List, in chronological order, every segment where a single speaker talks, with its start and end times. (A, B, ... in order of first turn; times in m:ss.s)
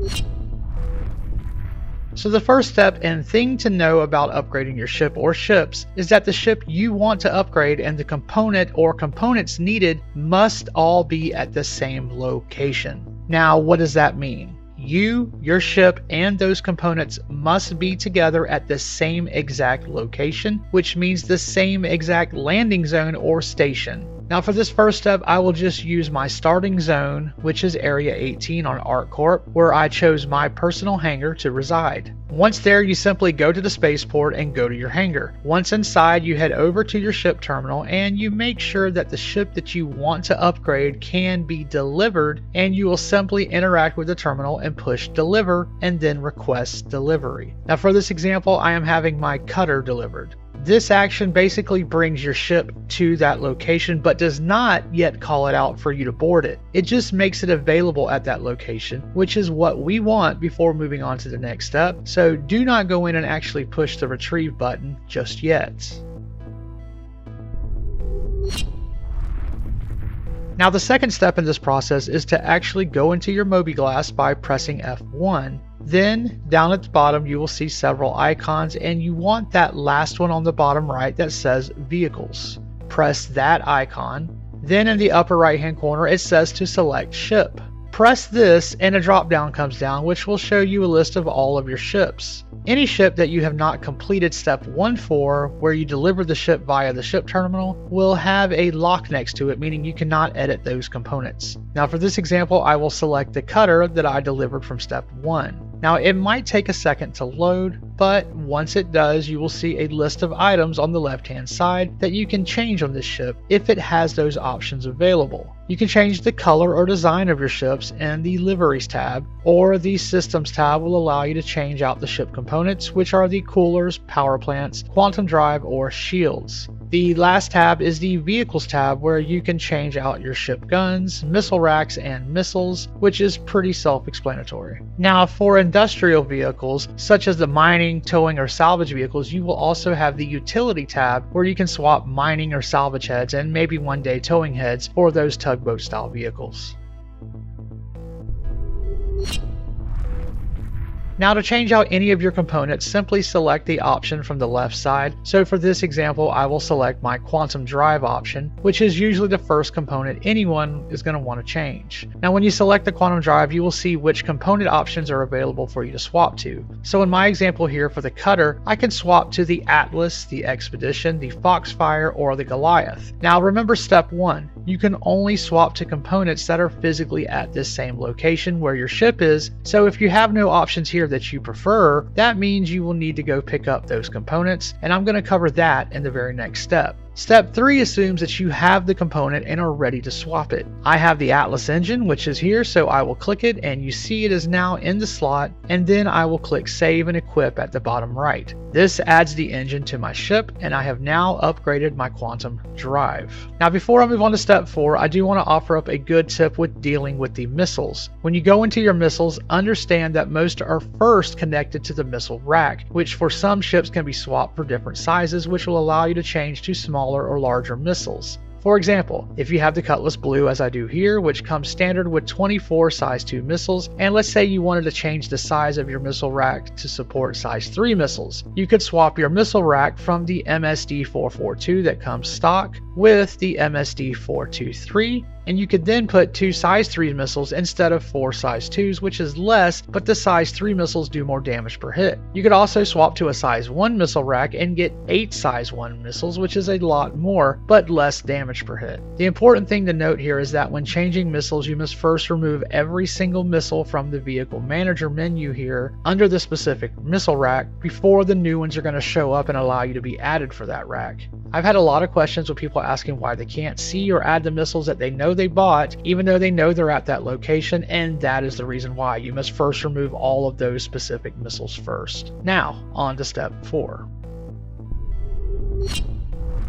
0:02.2-1:06.0 A
1:10.6-2:26.8 A
2:31.2-4:34.1 A